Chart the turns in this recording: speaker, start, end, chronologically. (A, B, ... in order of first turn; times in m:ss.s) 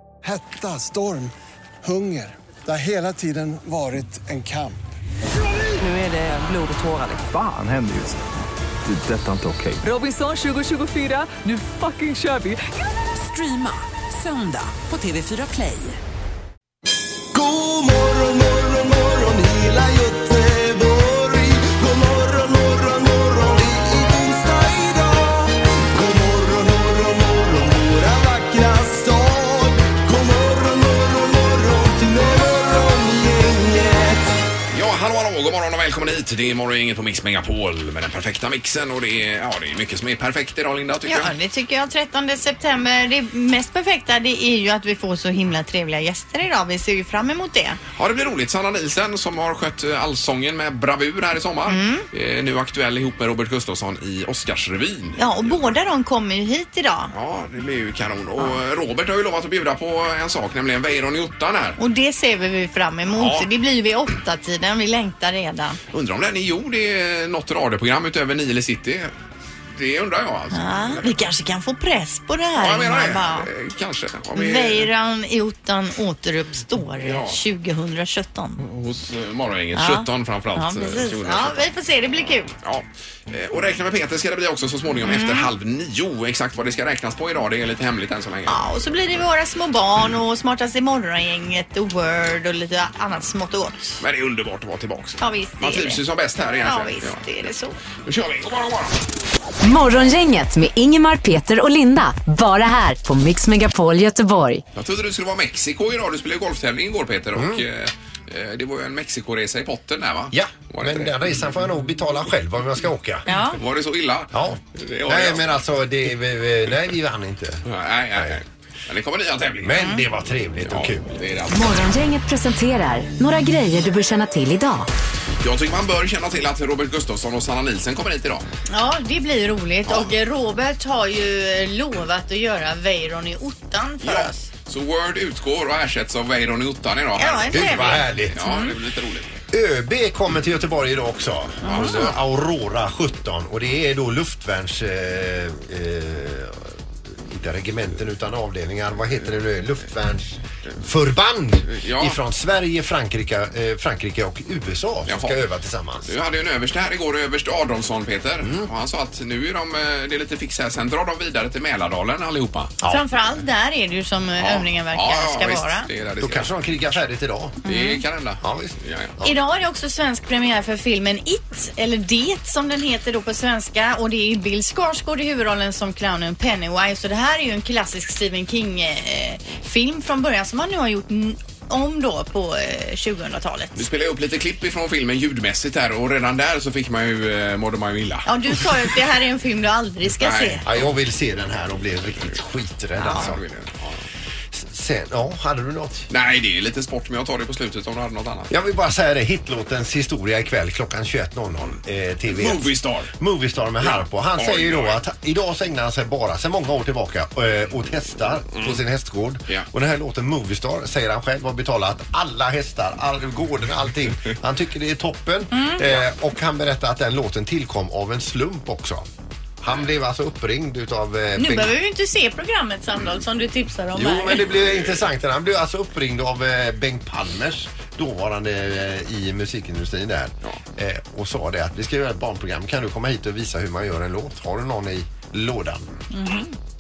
0:00.2-0:01.3 A
0:01.8-0:04.8 A
0:05.8-0:07.2 B
0:07.2-0:08.2 C
0:08.8-0:09.8 C
0:09.8-0:16.0 B
0:17.3-0:34.3 D
0:34.7-0:41.3 E
0:41.1-0:47.8 F
0:47.9-0:55.7 E
0:51.7-0:52.0 F
0:55.2-0:57.1 F
0:57.1-1:01.8 E
1:01.8-1:05.8 F
1:03.1-1:03.5 E
1:05.9-1:09.1 E
1:09.7-1:11.2 E
1:10.5-1:13.5 F
1:12.6-1:14.9 E
1:14.3-1:18.6 F
1:17.0-1:17.4 E
1:18.6-1:21.7 E
1:19.7-1:22.5 F
1:22.6-1:28.6 E
1:25.0-1:25.5 F
1:28.5-1:34.0 F
1:34.0-1:37.2 E
1:35.2-1:37.8 F
1:38.0-1:39.0 E
1:39.6-1:44.6 G
1:44.7-1:51.3 E
1:47.4-1:47.6 H
1:50.3-1:53.3 H
1:53.3-1:53.6 F
1:53.5-1:55.5 E
1:54.3-1:57.6 H
1:57.6-1:59.9 E
1:59.6-2:01.0 H
1:59.8-2:00.0 F
2:00.6-2:01.9 E
2:01.5-2:04.9 G
2:05.4-2:08.4 E
2:08.7-2:14.5 F
2:09.8-2:10.1 E
2:14.0-2:19.3 E
2:17.2-2:18.7 F
2:17.5-2:18.4 H
2:19.5-2:36.1 H
2:21.6-2:22.1 F
2:21.6-2:22.1 E
2:31.7-2:32.2 E
2:35.1-2:35.4 E
2:36.0-2:42.7 E
2:38.4-2:38.7 H
2:42.8-2:45.9 F
2:44.4-2:46.5 E
2:46.2-2:47.6 H
2:47.6-2:48.0 F
2:47.6-2:49.1 E
2:48.4-2:49.4 H
2:49.2-3:03.8 F
3:03.7-3:08.6 E
3:08.2-3:10.6 F
3:10.2-3:10.9 E
3:10.6-3:13.4 H
3:13.0-3:13.3 F
3:13.1-3:14.0 E
3:14.5-3:16.1 H
3:16.1-3:18.5 E
3:18.5-3:39.0 H
3:22.3-3:23.1 E
3:23.8-3:25.0 E
3:28.5-3:28.8 E
3:39.6-3:41.7 H
3:41.4-3:44.4 F
3:44.0-3:55.9 H
3:44.7-3:45.0 E
3:56.1-3:56.5 F